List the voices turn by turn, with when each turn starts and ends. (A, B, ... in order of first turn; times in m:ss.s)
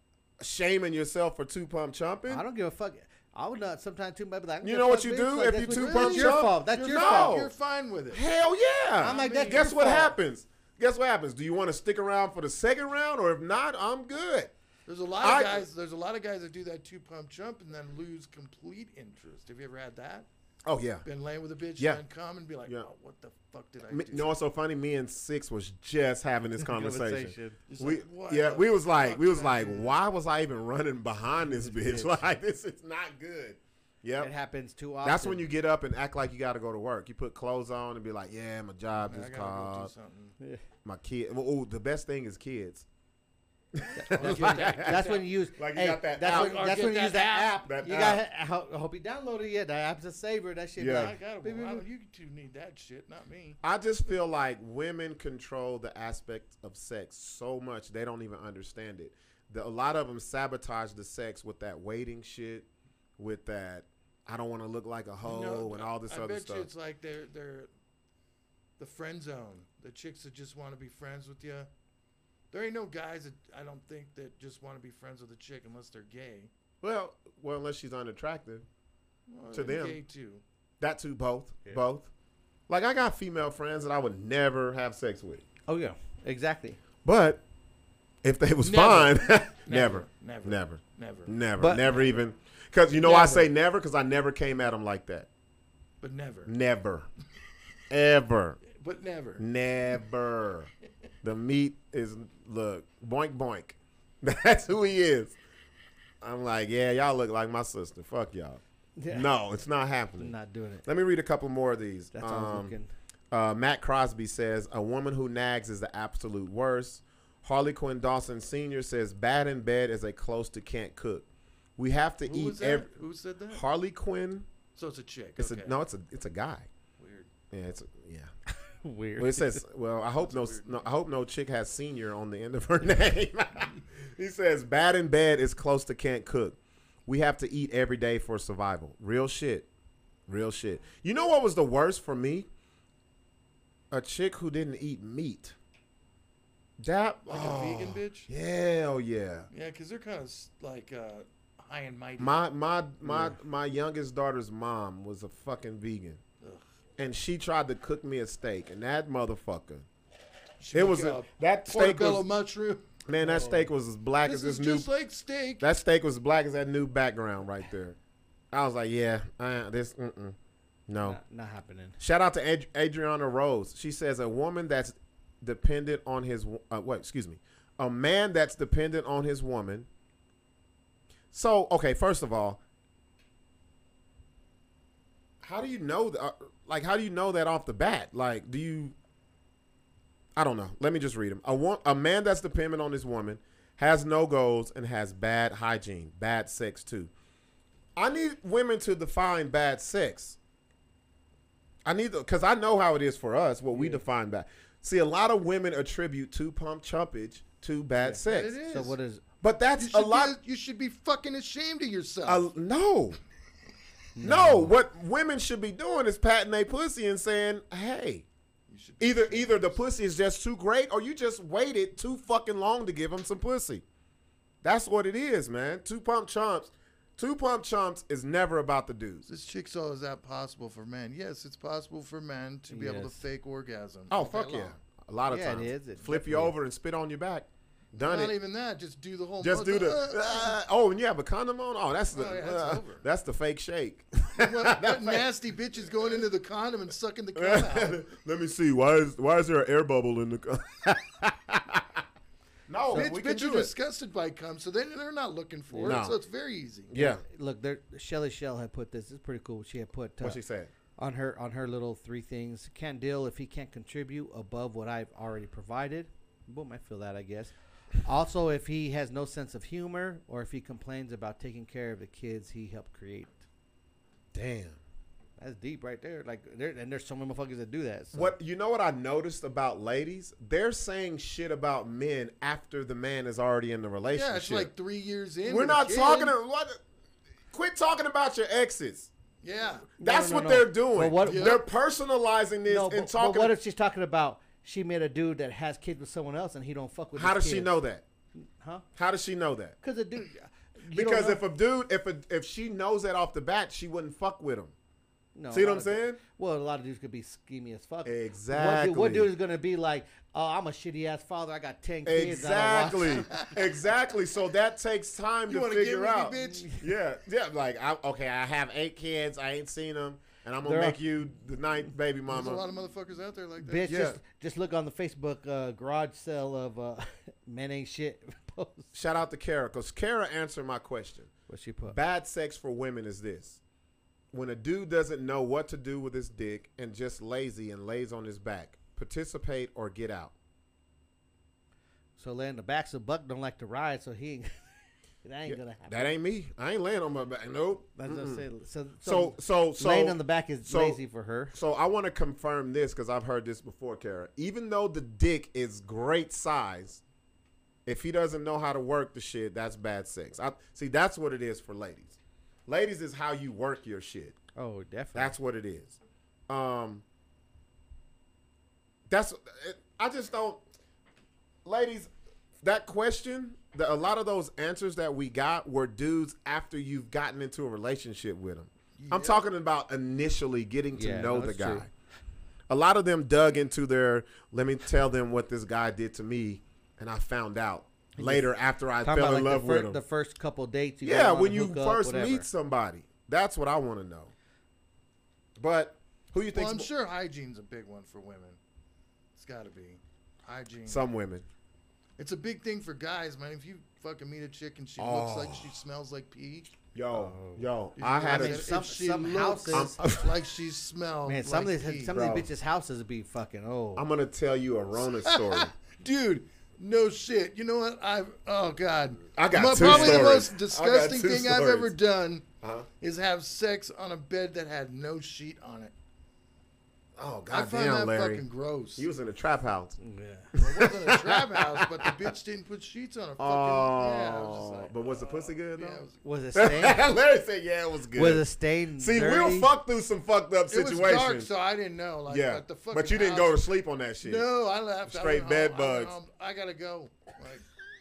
0:00.4-0:02.4 A
0:02.3-0:07.4 B
0:04.6-0:07.5 A
0:05.7-0:08.2 C
0:08.1-0:14.5 A
0:09.0-0:09.7 C
0:09.0-0:10.1 B
0:14.9-0:20.3 C
0:15.2-0:15.7 A
0:20.6-0:21.0 A
0:21.0-0:24.3 C
0:23.9-0:34.3 A
0:26.6-0:27.6 B
0:27.7-0:29.9 C
0:31.6-0:32.1 B
0:34.2-0:35.4 B
0:35.0-0:39.9 A
0:39.0-0:40.3 C
0:40.8-0:42.8 A
0:43.7-0:46.7 A
0:44.0-0:51.8 B
0:44.0-0:45.2 C
0:46.2-0:47.6 C
0:47.6-0:48.2 A
0:50.8-0:51.1 A
0:50.8-0:53.6 C
0:53.6-1:02.7 A
1:03.2-1:06.7 A
1:05.2-1:07.7 C
1:08.8-1:11.7 C
1:12.5-1:16.5 C
1:16.8-1:18.6 A
1:19.3-1:20.4 C
1:19.5-1:20.0 A
1:20.8-1:22.1 A
1:22.7-1:25.4 A
1:25.7-1:26.8 B
1:27.0-1:27.4 A
1:28.2-1:35.3 A
1:28.6-1:31.4 C
1:31.6-1:32.1 B
1:32.9-1:33.5 C
1:36.0-1:36.5 C
1:36.4-1:37.1 A
1:37.9-1:38.6 A
1:38.7-1:39.4 C
1:39.4-1:40.7 A
1:41.2-1:45.4 A
1:46.2-1:50.3 A
1:49.0-1:49.3 B
1:50.2-1:50.8 B
1:50.8-1:52.7 A
1:52.1-1:52.9 B
1:53.3-2:02.9 A
2:02.2-2:03.6 C
2:03.5-2:04.5 A
2:04.7-2:05.8 C
2:05.4-2:06.7 A
2:07.0-2:07.3 C
2:07.5-2:08.3 A
2:08.8-2:09.6 B
2:09.2-2:19.7 A
2:10.2-2:10.9 C
2:20.3-2:22.5 A
2:23.9-2:25.6 A
2:26.8-2:29.5 A
2:27.3-2:28.3 C
2:29.5-2:32.4 C
2:32.2-2:36.2 A
2:33.0-2:33.4 B
2:37.0-2:39.8 A
2:40.6-2:42.8 C
2:40.7-2:42.2 A
2:43.0-2:44.9 A
2:43.2-2:43.7 B
2:44.2-2:45.6 C
2:45.6-2:48.0 A
2:48.5-2:50.4 A
2:50.9-2:51.2 A
2:51.0-2:52.0 B
2:52.0-2:59.9 A
3:01.3-3:02.6 A
3:05.4-3:08.9 A
3:10.4-3:17.1 A
3:18.0-3:20.4 A
3:21.8-3:28.6 A
3:23.7-3:24.0 B
3:28.0-3:29.2 B
3:28.2-3:29.0 C
3:29.4-3:30.4 A
3:29.8-3:32.5 C
3:32.2-3:33.2 A
3:34.2-3:34.7 B
3:34.2-3:38.2 A
3:38.7-3:39.8 C
3:39.0-3:43.8 A
3:44.6-3:49.2 A
3:49.3-3:54.7 C
3:52.7-3:53.2 B
3:54.1-3:58.3 A
3:55.3-3:56.5 B
3:57.9-4:00.6 C
3:59.4-4:05.2 A
4:02.1-4:03.0 C
4:04.4-4:08.0 C
4:07.3-4:12.0 A
4:12.7-4:13.7 A
4:12.9-4:16.9 C
4:15.7-4:16.0 B
4:15.8-4:16.2 A
4:16.9-4:17.2 A
4:17.0-4:20.4 B
4:20.2-4:20.7 A
4:21.0-4:33.4 B
4:34.3-4:34.8 A
4:35.4-4:38.3 B
4:38.1-4:44.7 A
4:44.1-4:46.3 C
4:45.5-4:46.8 A
4:47.5-4:49.1 A
4:49.4-4:49.9 C
4:50.0-4:53.6 A
4:50.0-4:51.5 B
4:51.2-4:51.6 C
4:52.7-4:57.7 B
4:57.2-4:58.0 A
4:58.4-4:58.8 B
4:59.0-4:59.8 A
4:59.8-5:01.4 B
5:00.9-5:04.7 A
5:05.3-5:13.5 B
5:05.5-5:06.2 A
5:08.0-5:09.3 A
5:12.0-5:22.6 A
5:13.3-5:13.7 C
5:15.5-5:16.7 C
5:16.5-5:16.8 B
5:20.6-5:21.0 B
5:22.3-5:24.0 C
5:23.6-5:28.9 B
5:23.8-5:24.2 A
5:28.9-5:31.3 A
5:31.5-5:32.0 B
5:31.9-5:33.6 A
5:34.3-5:40.3 A
5:42.2-5:44.7 B
5:45.2-5:46.1 B
5:45.4-5:48.4 A
5:48.0-5:51.5 B
5:49.0-5:51.0 A
5:51.5-5:57.0 A
5:57.8-6:04.4 A
6:04.5-6:05.4 B
6:05.1-6:06.0 A
6:06.5-6:07.0 A
6:09.1-6:10.6 A
6:11.6-6:12.1 A
6:12.6-6:21.9 A
6:19.0-6:19.4 C
6:20.9-6:21.8 B
6:22.7-6:30.0 A
6:28.2-6:28.5 B
6:29.0-6:32.4 B
6:31.0-6:34.3 A
6:35.6-6:36.9 A
6:36.5-6:38.6 C
6:39.3-6:41.0 C
6:40.8-6:41.4 A
6:42.2-6:46.7 C
6:45.0-6:45.7 A
6:46.9-6:48.7 A
6:47.1-6:47.7 B
6:48.0-6:52.1 C
6:48.3-6:50.0 B
6:49.7-6:50.4 A
6:51.2-6:54.0 B
6:52.1-6:52.5 A
6:54.0-6:55.7 A
6:55.0-7:02.5 C
6:59.4-7:01.9 A
6:59.8-7:00.2 B
7:02.6-7:02.9 A
7:03.0-7:05.9 C
7:07.2-7:08.4 A
7:07.5-7:09.1 C
7:09.0-7:10.0 A
7:10.0-7:10.5 B
7:10.5-7:12.2 A
7:10.6-7:16.2 C
7:13.4-7:16.0 A
7:16.2-7:17.0 B
7:16.5-7:21.5 A
7:18.1-7:19.7 B
7:20.7-7:23.6 C
7:22.3-7:24.5 A
7:24.2-7:27.7 C
7:25.1-7:26.1 A